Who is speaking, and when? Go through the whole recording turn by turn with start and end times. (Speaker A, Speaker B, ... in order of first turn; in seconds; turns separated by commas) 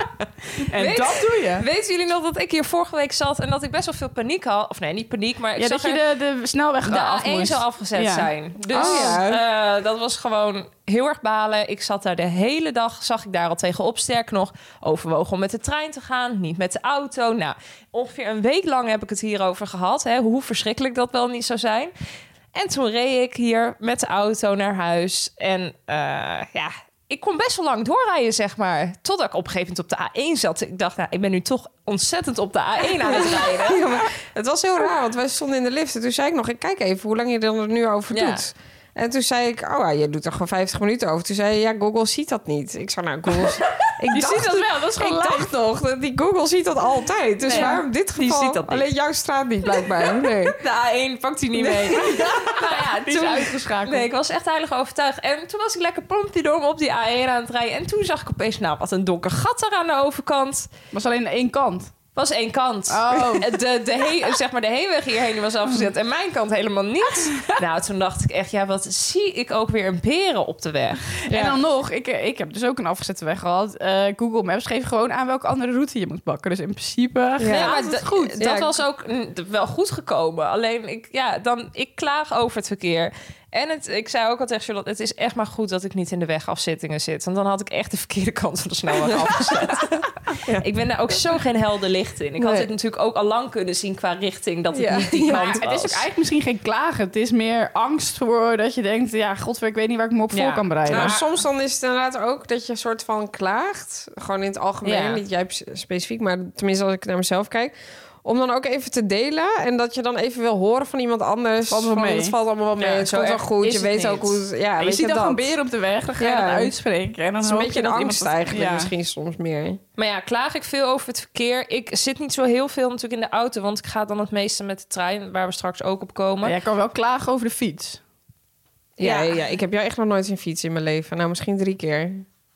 Speaker A: 0.6-1.6, Speaker B: 0.7-6.0, Speaker A: 5.6-9.2, Speaker B: 6.8-21.9, Speaker C: 8.7-9.4, Speaker B: 22.5-33.8, Speaker C: 33.0-50.6, Speaker B: 38.1-38.4, Speaker A: 44.1-45.5, Speaker A: 47.5-47.8, Speaker B: 47.5-48.9, Speaker B: 50.4-60.7, Speaker C: 51.6-52.2, Speaker A: 51.9-54.1, Speaker A: 60.9-61.9, Speaker B: 62.1-71.1, Speaker A: 62.9-63.5, Speaker A: 67.2-67.5, Speaker A: 71.3-78.3, Speaker C: 71.3-71.6, Speaker C: 77.4-78.8, Speaker B: 77.5-96.0, Speaker C: 92.4-92.7, Speaker C: 94.7-95.6, Speaker A: 95.3-101.2, Speaker B: 100.3-101.2, Speaker C: 100.9-115.5, Speaker B: 104.8-105.2, Speaker A: 111.7-112.3, Speaker B: 112.8-114.4, Speaker A: 114.8-118.9, Speaker C: 116.2-116.7, Speaker C: 117.4-119.8, Speaker B: 120.0-126.5, Speaker A: 126.4-128.0, Speaker B: 129.0-129.4, Speaker C: 129.0-132.2